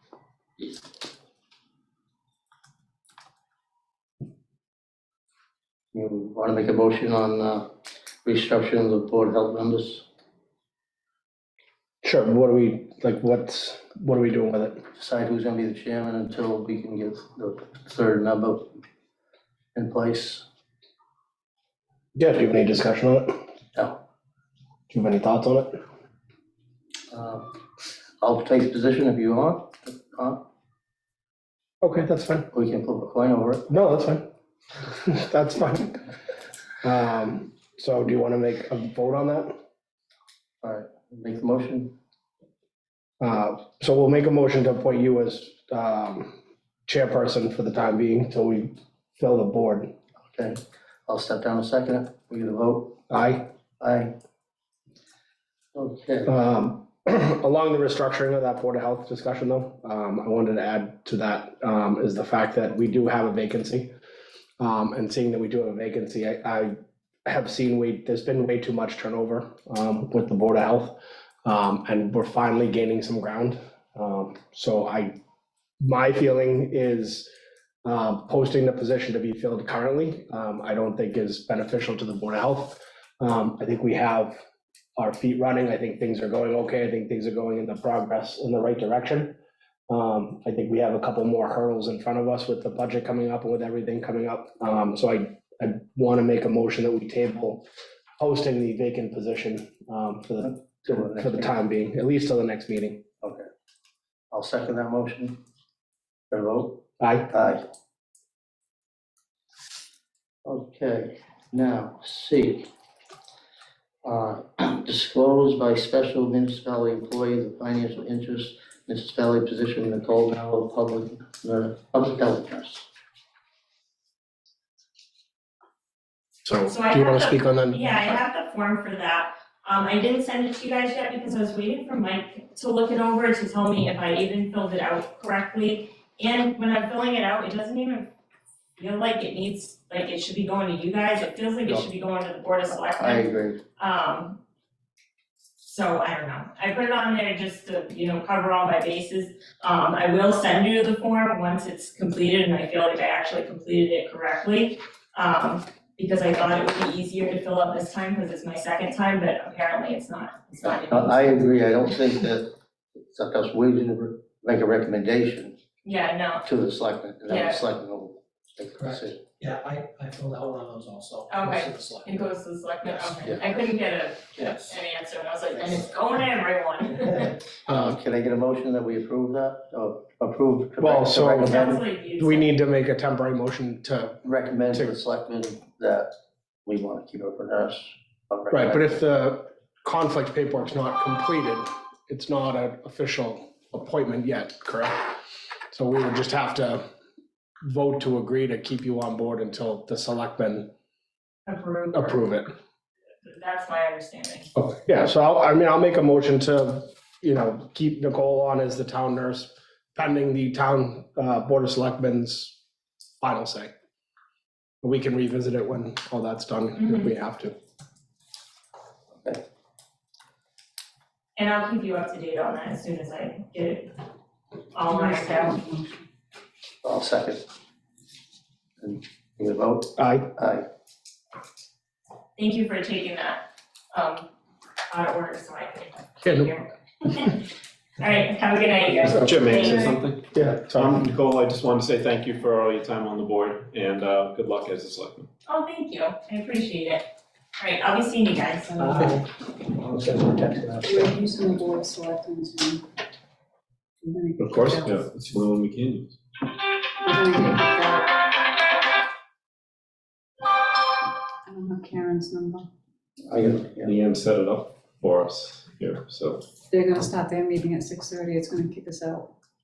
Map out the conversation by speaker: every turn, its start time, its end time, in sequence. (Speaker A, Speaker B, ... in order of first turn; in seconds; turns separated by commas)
Speaker A: 0.6-0.9, Speaker A: 5.9-7.7, Speaker A: 8.2-10.1, Speaker B: 12.0-14.8, Speaker A: 15.0-18.8, Speaker A: 19.8-20.5, Speaker B: 22.2-23.3, Speaker B: 24.9-25.8, Speaker A: 27.1-27.5, Speaker A: 28.2-30.4, Speaker B: 31.8-32.5, Speaker A: 32.5-33.7, Speaker B: 33.7-34.2, Speaker B: 34.9-36.0, Speaker B: 36.8-39.5, Speaker A: 40.6-41.9, Speaker B: 43.2-49.9, Speaker A: 50.3-53.0, Speaker B: 53.1-53.5, Speaker A: 53.8-54.1, Speaker A: 55.8-56.3, Speaker B: 56.3-63.9, Speaker B: 64.6-75.2, Speaker B: 75.8-77.3, Speaker B: 77.8-84.4, Speaker B: 85.0-97.6, Speaker B: 98.2-103.0, Speaker A: 100.5-101.5, Speaker A: 104.3-105.4, Speaker A: 106.3-107.6, Speaker B: 107.0-107.3, Speaker A: 110.5-112.7, Speaker A: 114.0-122.9, Speaker B: 126.5-128.2, Speaker C: 126.7-138.1, Speaker C: 138.8-144.4, Speaker A: 142.7-143.6, Speaker C: 145.6-161.4, Speaker A: 160.6-162.5, Speaker A: 163.1-165.6, Speaker C: 165.8-166.4, Speaker A: 166.4-169.2, Speaker C: 167.3-167.6, Speaker D: 168.8-172.1, Speaker C: 171.3-177.4, Speaker D: 174.4-174.7, Speaker A: 177.7-181.8, Speaker B: 177.7-178.0, Speaker B: 180.8-184.2, Speaker C: 181.4-182.6, Speaker A: 184.2-186.1, Speaker A: 186.7-189.0, Speaker B: 188.5-195.2, Speaker B: 195.7-196.8, Speaker B: 197.7-200.7, Speaker C: 201.5-202.2, Speaker B: 201.9-202.5, Speaker C: 203.3-204.5, Speaker B: 204.6-212.6, Speaker B: 213.2-213.7, Speaker B: 214.8-217.6, Speaker C: 216.8-217.1, Speaker C: 221.4-223.9, Speaker C: 224.7-225.6, Speaker E: 224.9-226.0, Speaker A: 226.8-227.4, Speaker A: 228.8-230.7, Speaker B: 230.0-230.3, Speaker C: 232.4-234.3, Speaker C: 234.9-237.4, Speaker B: 236.2-236.5, Speaker C: 238.0-240.0, Speaker F: 239.0-245.3, Speaker B: 240.3-241.1, Speaker C: 245.5-247.1, Speaker C: 247.6-249.2, Speaker A: 249.8-250.9, Speaker E: 250.8-252.8, Speaker E: 254.0-255.0, Speaker F: 254.4-256.2, Speaker E: 257.0-258.1, Speaker E: 261.5-262.7, Speaker A: 263.3-264.0, Speaker F: 263.8-266.5, Speaker E: 266.7-269.3